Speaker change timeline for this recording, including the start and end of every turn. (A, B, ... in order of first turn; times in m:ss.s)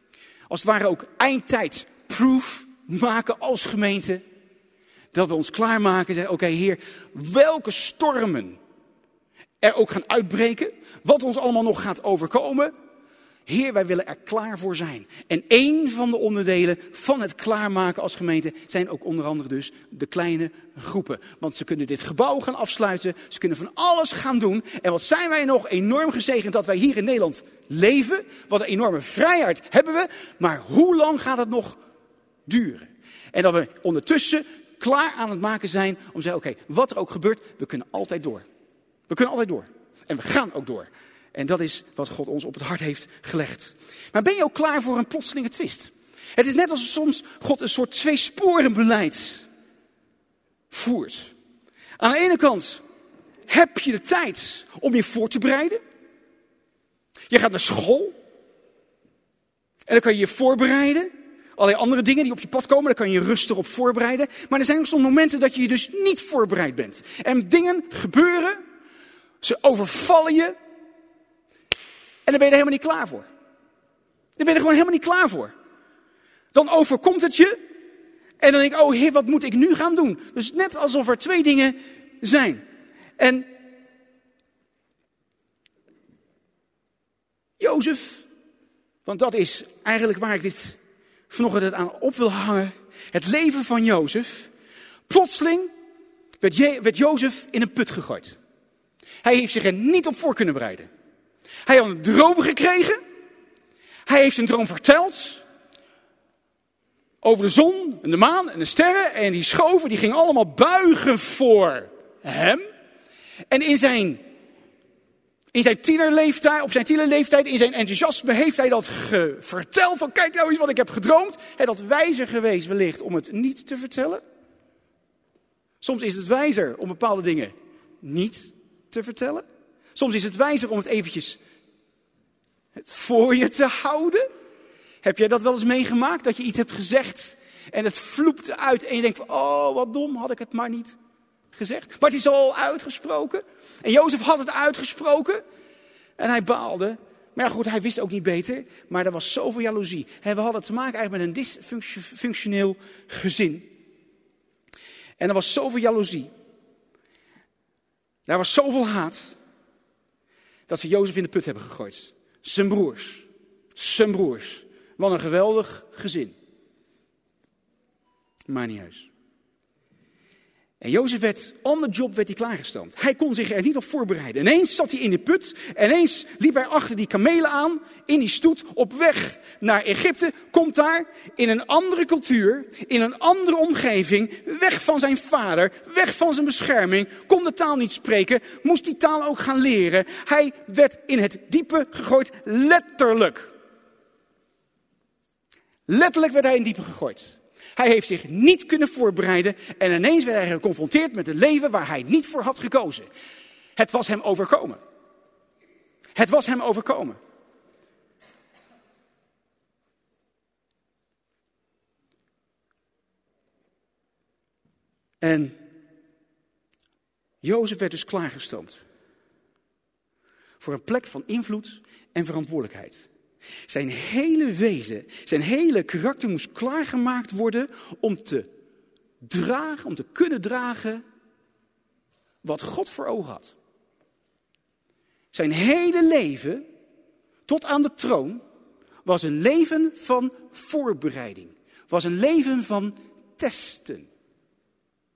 0:00.5-0:04.2 A
0:05.1-0:08.6 A
0:09.6-0:12.7 A
0:13.5-0:31.8 A
0:32.5-0:38.5 A
0:39.1-0:49.5 A
0:50.7-0:51.3 A
0:52.0-0:52.8 A
0:53.5-0:55.8 A
0:57.3-0:58.2 A
0:59.9-1:08.6 A
1:09.4-1:10.6 A
1:12.2-1:13.3 A
1:14.4-1:15.5 A
1:16.5-1:17.6 A
1:18.4-1:22.6 A
1:23.2-1:23.5 A
1:27.6-1:28.3 A
1:29.0-1:30.8 A
1:31.3-1:34.5 A
1:35.1-1:35.7 A
1:36.4-1:38.4 A
1:39.2-1:40.9 A
1:41.7-1:43.0 A
1:44.1-1:45.4 A
1:47.2-1:52.7 A
1:53.5-1:54.2 A
1:55.5-2:04.2 A
2:05.8-2:11.4 A
2:12.8-2:14.3 A
2:15.0-2:21.0 A
2:21.5-2:25.4 A
2:26.2-2:33.7 A
2:35.2-2:36.3 A
2:38.3-2:39.4 A
2:40.7-2:46.4 A
2:48.5-2:49.1 A
2:50.8-3:13.5 A
3:15.9-3:23.1 A
3:23.8-3:24.8 A
3:26.2-3:27.2 A
3:35.2-3:35.6 A
3:37.4-3:38.8 A
3:40.6-3:43.1 A
3:43.7-3:48.5 A
3:49.2-3:51.0 A
3:52.4-3:53.5 A
3:55.3-3:56.6 A
3:57.5-3:58.4 A
3:59.0-4:04.1 A